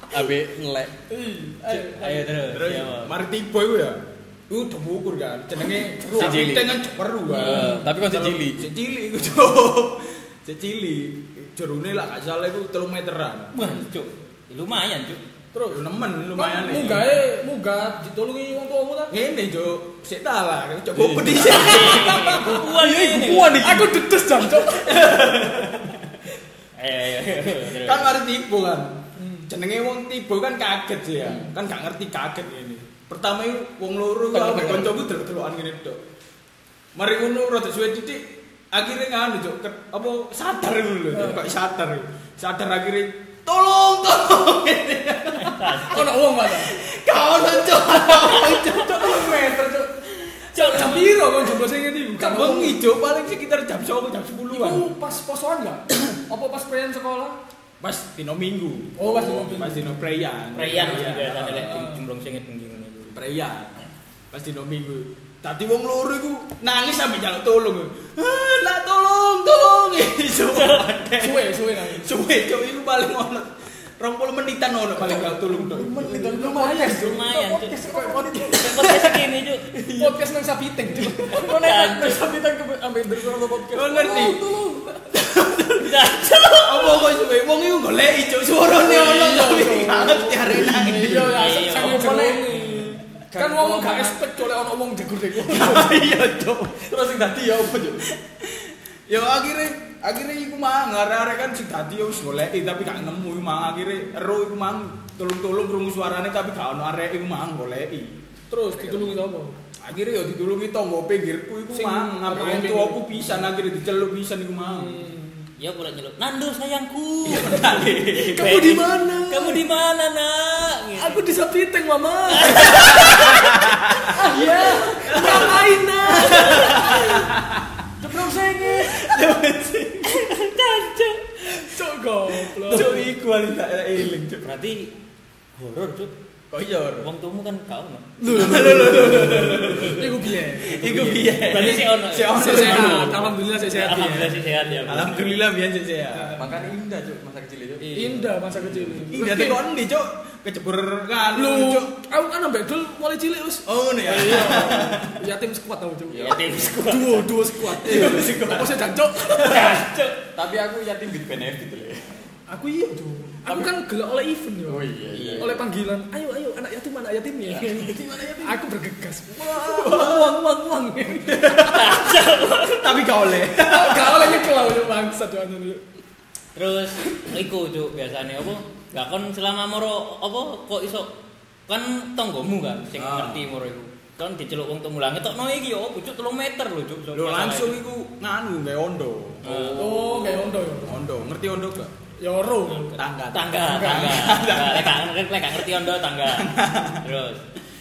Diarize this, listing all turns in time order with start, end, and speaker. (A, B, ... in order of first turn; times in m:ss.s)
0:00.1-0:01.0 A
0:01.1-0:02.2 B
0:01.6-0:03.1 C
0:01.7-0:13.5 D
0:06.0-0:06.8 A
0:07.3-0:08.7 A
0:07.3-0:07.7 C
0:07.4-0:07.7 B
0:13.5-0:15.2 C
0:15.5-0:19.1 B
0:15.7-0:17.1 D
0:19.1-0:22.6 D
0:20.9-0:21.4 A
0:21.3-0:23.7 C
0:21.4-0:25.0 B
0:24.6-0:26.0 D
0:26.8-0:28.2 C
0:27.5-0:36.0 D
0:29.2-0:29.5 B
0:34.3-0:35.0 A
0:36.9-0:45.8 D
0:41.1-0:41.4 B
0:45.4-0:46.2 C
0:45.8-0:46.7 B
0:46.5-0:49.8 D
0:47.9-0:48.6 C
0:48.8-0:49.6 B
0:50.2-0:51.3 C
0:50.5-0:52.8 B
0:52.2-0:54.9 D
0:54.5-0:57.4 B
0:57.8-1:01.8 D
0:59.0-1:00.0 B
1:00.5-1:03.2 C
1:01.6-1:02.0 B
1:03.1-1:03.7 D
1:04.3-1:16.0 D
1:10.5-1:10.8 C
1:11.2-1:12.1 B
1:15.5-1:19.1 A
1:15.7-1:17.2 B
1:16.8-1:17.8 C
1:17.8-1:18.5 B
1:18.5-1:19.7 C
1:19.7-1:20.1 A
1:19.9-1:21.6 B
1:21.2-1:24.9 A
1:21.5-1:22.2 C
1:23.7-1:24.4 D
1:25.1-1:26.0 D
1:25.8-1:27.0 C
1:26.5-1:31.4 D
1:28.7-1:30.4 B
1:30.4-1:34.2 A
1:31.0-1:36.0 B
1:31.3-1:32.9 C
1:35.4-1:36.8 D
1:36.8-1:38.1 A
1:39.1-1:48.1 D
1:48.5-1:49.6 B
1:49.8-1:55.0 D
1:51.7-1:53.5 B
1:54.6-1:55.5 B
1:55.6-2:01.2 C
1:57.2-1:58.5 D
1:58.2-1:59.6 B
2:01.0-2:03.2 B
2:02.3-2:03.6 C
2:02.9-2:07.6 D
2:04.1-2:07.0 B
2:06.2-2:07.3 C
2:08.0-2:09.0 B
2:08.7-2:10.1 D
2:10.0-2:11.7 C
2:11.6-2:13.1 B
2:12.6-2:14.5 D
2:14.4-2:14.9 C
2:15.6-2:16.1 C
2:16.5-2:17.1 D
2:17.0-2:18.1 C
2:18.2-2:21.1 B
2:18.2-2:23.4 D
2:20.8-2:25.4 C
2:22.3-2:24.7 B
2:24.8-2:26.5 D
2:26.1-2:26.4 B
2:26.3-2:29.1 A
2:27.9-2:29.6 B
2:29.1-2:31.9 D
2:31.3-2:39.7 B
2:33.6-2:35.2 D
2:36.1-2:36.6 A
2:36.1-2:37.6 C
2:37.7-2:39.9 D
2:39.4-2:40.2 C
2:40.3-2:42.0 A
2:42.5-2:51.5 B
2:43.4-2:43.7 A
2:44.6-2:45.6 A
2:47.4-2:48.6 A
2:49.5-2:50.4 D
2:51.2-2:54.4 D
2:51.6-2:53.0 C
2:53.5-2:55.8 B
2:56.5-3:01.1 C
3:01.7-3:07.8 C
3:03.0-3:03.4 D
3:07.1-3:11.9 D
3:09.4-3:10.0 C
3:09.8-3:11.0 B
3:12.2-3:13.0 B
3:12.9-3:15.0 D
3:13.3-3:17.4 C
3:16.2-3:17.0 D